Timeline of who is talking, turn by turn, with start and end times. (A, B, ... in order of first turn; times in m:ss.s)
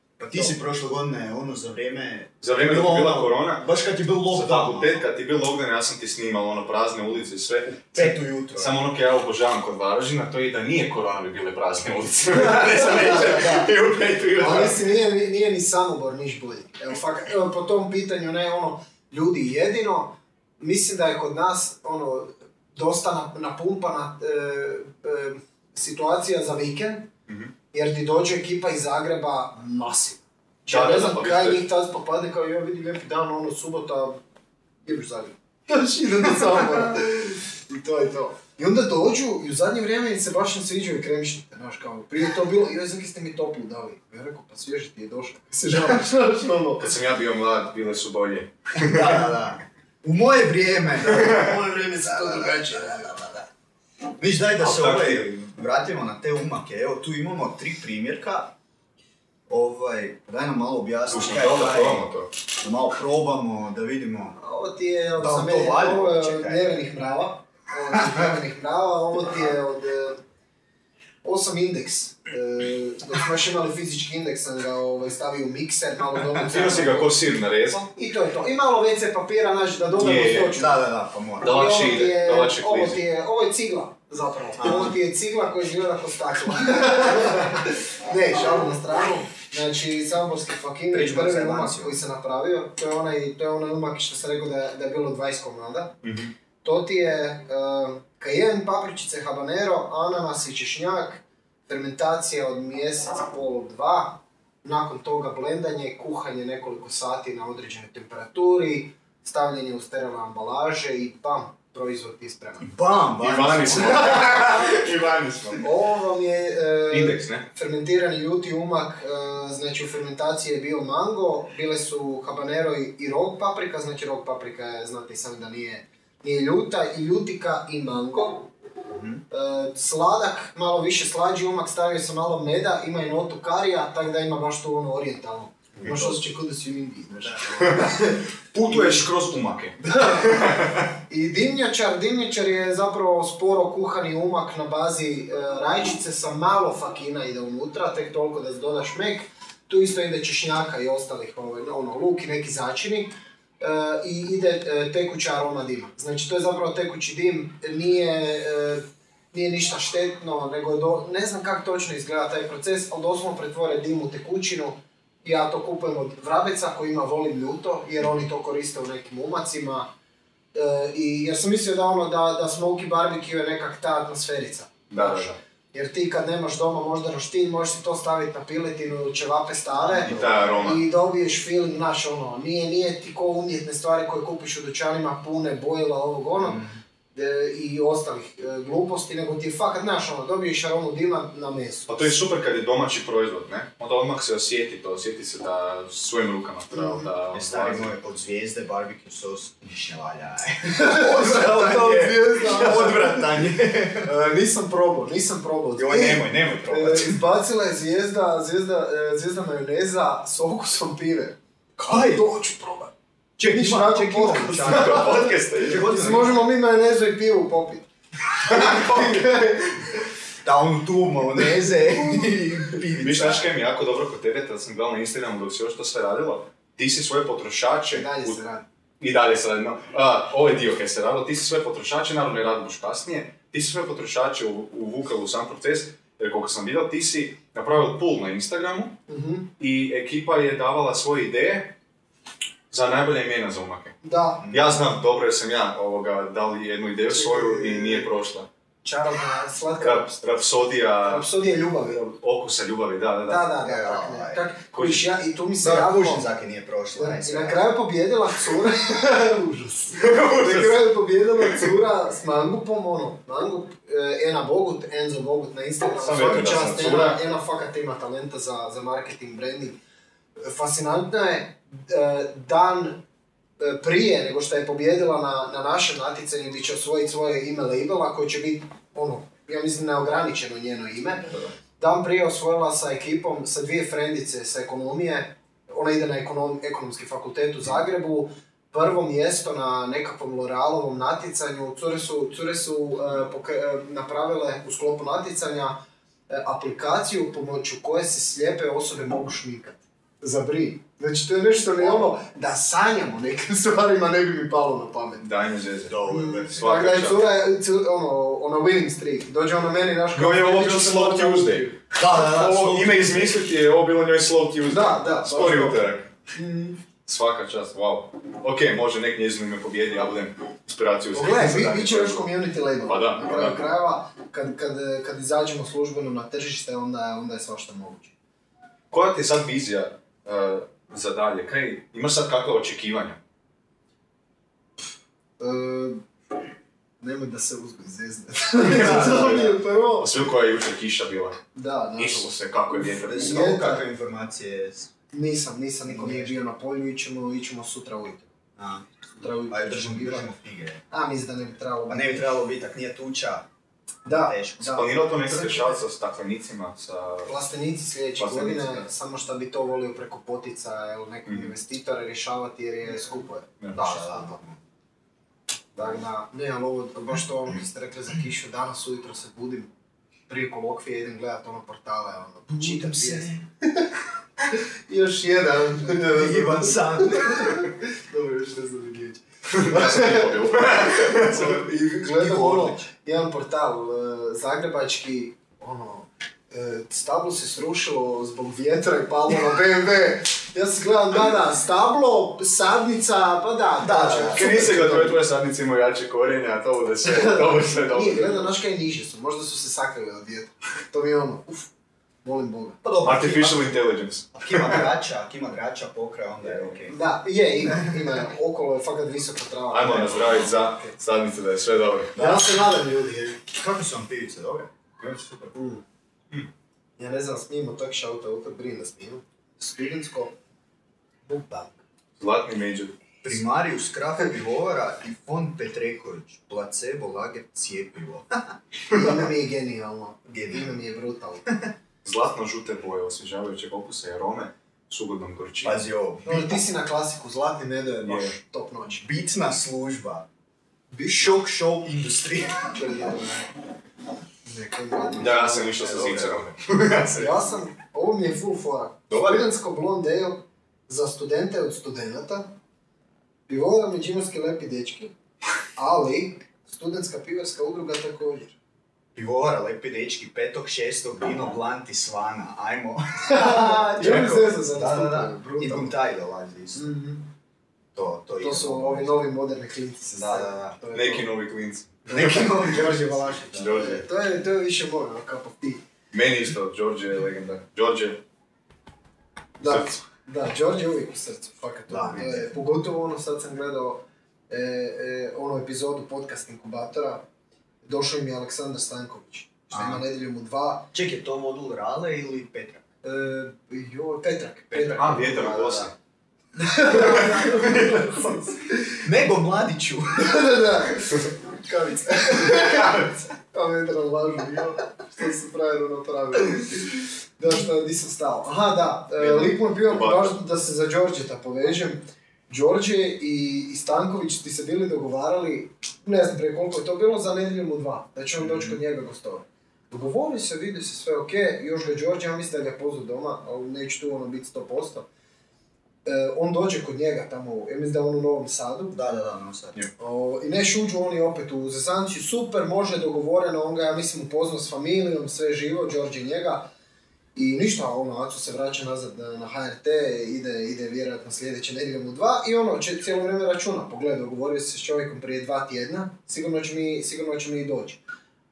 0:00.2-0:05.0 A
0:02.4-0:03.7 B
0:04.3-0:14.8 B
0:07.9-0:08.8 A
0:12.3-0:13.7 C
0:14.4-0:27.1 C
0:27.3-0:27.5 B
0:27.7-0:34.2 C
0:30.6-0:31.6 B
0:34.8-0:46.9 C
0:46.8-0:49.2 B
0:48.8-0:51.5 A
0:51.1-0:53.4 C
0:54.2-0:58.5 A
0:54.6-0:55.4 B
0:59.5-1:02.0 A
1:01.1-1:02.3 B
1:02.6-1:04.4 A
1:04.4-1:10.2 C
1:05.2-1:06.8 A
1:11.2-1:17.1 C
1:16.4-1:17.9 B
1:17.9-1:20.8 C
1:20.0-1:20.6 B
1:20.5-1:21.6 A
1:21.4-1:23.0 B
1:21.4-1:35.9 C
1:24.6-1:25.0 A
1:30.9-1:32.0 A
1:36.0-1:36.3 B
1:36.6-1:52.7 C
1:52.6-1:54.3 A
1:53.2-1:55.6 B
1:54.2-1:54.4 C
1:55.6-2:08.5 C
1:56.9-1:57.4 B
2:08.9-2:09.2 A
2:09.3-2:19.0 C
2:15.8-2:16.2 A
2:17.6-2:20.9 B
2:19.8-2:49.9 C
2:50.5-3:06.6 C
2:54.9-2:55.4 B
2:59.8-3:00.8 A
3:00.0-3:00.8 B
3:06.4-3:06.8 A
3:07.1-3:12.2 C
3:11.9-3:17.9 B
3:16.7-3:17.1 C
3:17.3-3:24.1 A
3:20.6-3:23.4 C
3:24.0-3:32.9 C
3:25.8-3:27.0 A
3:25.9-3:27.1 B
3:31.8-3:32.2 A
3:33.4-3:36.4 A
3:33.4-3:37.8 C
3:34.6-3:36.3 B
3:38.4-3:39.5 B
3:38.5-3:39.6 C
3:40.4-3:43.5 A
3:43.0-3:48.4 B
3:47.9-3:48.6 C
3:49.0-3:59.0 B
3:59.1-3:59.5 C
3:59.6-4:01.7 B
4:02.7-4:04.0 B
4:04.0-4:04.5 C
4:04.4-4:04.7 A
4:04.5-4:08.5 B
4:07.1-4:08.1 C
4:08.8-4:10.1 C
4:09.8-4:11.3 B
4:11.0-4:12.1 C
4:12.0-4:13.5 B
4:13.3-4:16.2 C
4:13.6-4:14.4 A
4:14.7-4:15.1 B
4:15.6-4:17.7 A
4:16.9-4:29.8 C
4:20.0-4:20.8 B
4:25.9-4:27.2 B
4:30.4-4:33.0 C
4:33.6-5:05.2 C
5:01.8-5:02.1 A
5:05.2-5:07.3 B
5:05.8-5:06.6 A
5:06.1-5:11.8 C
5:10.1-5:16.1 B
5:11.9-5:13.4 A
5:14.7-5:16.8 C
5:17.0-5:22.3 B
5:21.1-5:28.1 C
5:22.8-5:23.6 B
5:28.9-5:33.2 B
5:35.4-5:36.0 C
5:37.0-5:40.1 C
5:38.6-5:41.4 B
5:38.6-5:39.5 A
5:41.5-5:43.8 C
5:42.0-5:43.4 B
5:42.8-5:44.9 A
5:45.1-5:48.3 C
5:45.8-5:46.3 A
5:48.6-5:50.8 A
5:49.1-5:50.3 C
5:50.9-5:52.3 C
5:51.9-5:53.5 A
5:54.0-5:55.7 C
5:54.0-5:54.8 A
5:54.6-5:57.3 B
5:57.2-6:04.4 C
5:58.2-5:58.9 B
6:03.6-6:03.9 B
6:03.7-6:04.6 A
6:05.8-6:09.7 C
6:10.3-6:13.9 C
6:12.5-6:13.4 A
6:14.9-6:35.2 C
6:15.9-6:17.6 A
6:19.5-6:21.6 B
6:22.0-6:22.9 A
6:33.8-6:34.7 A
6:34.3-6:38.5 B
6:37.0-6:41.7 C
6:42.2-6:42.8 C
6:42.8-6:43.7 A
6:43.0-6:44.9 B
6:44.3-6:46.9 A
6:46.9-6:50.9 C
6:49.7-6:52.2 B
6:52.1-6:52.5 A
6:52.2-6:53.4 C
6:53.5-6:55.5 A
6:55.5-6:55.8 C
6:57.0-7:00.3 C
7:01.2-7:01.8 C
7:02.2-7:03.0 B
7:03.2-7:08.6 A
7:08.9-7:11.5 C
7:10.3-7:10.8 A
7:12.0-7:15.8 B
7:15.6-7:16.6 A
7:16.2-7:19.0 C
7:18.0-7:18.3 B
7:19.0-7:20.3 A
7:20.9-7:21.4 C
7:21.1-7:23.2 A
7:22.7-7:23.4 C
7:24.4-7:26.4 C
7:25.2-7:27.4 B
7:26.0-7:26.3 A
7:27.1-7:32.6 C
7:29.1-7:29.4 B
7:33.5-7:35.1 C
7:35.8-7:38.6 C
7:39.1-7:46.9 A
7:43.2-7:46.0 C
7:44.0-7:44.5 B
7:46.7-7:47.3 C
7:47.9-7:49.2 A
7:48.4-7:51.3 C
7:50.2-7:52.5 B
7:50.3-7:50.7 A
7:52.1-7:55.8 C
7:52.1-7:53.9 A
7:53.5-7:54.0 B
7:56.1-7:58.2 B
7:59.6-8:07.2 C
7:59.6-8:00.0 B
8:01.9-8:02.6 A
8:07.8-8:10.9 C
8:09.7-8:10.0 A
8:10.9-8:12.8 A
8:13.0-8:15.5 C
8:14.7-8:15.9 A
8:14.9-8:15.9 B
8:16.6-8:19.0 C
8:16.9-8:17.7 B
8:19.0-8:20.5 A
8:20.2-8:45.0 C
8:29.2-8:30.4 B
8:46.0-8:49.0 C
8:48.9-8:49.8 A
8:50.0-8:56.7 C
8:57.3-9:08.0 C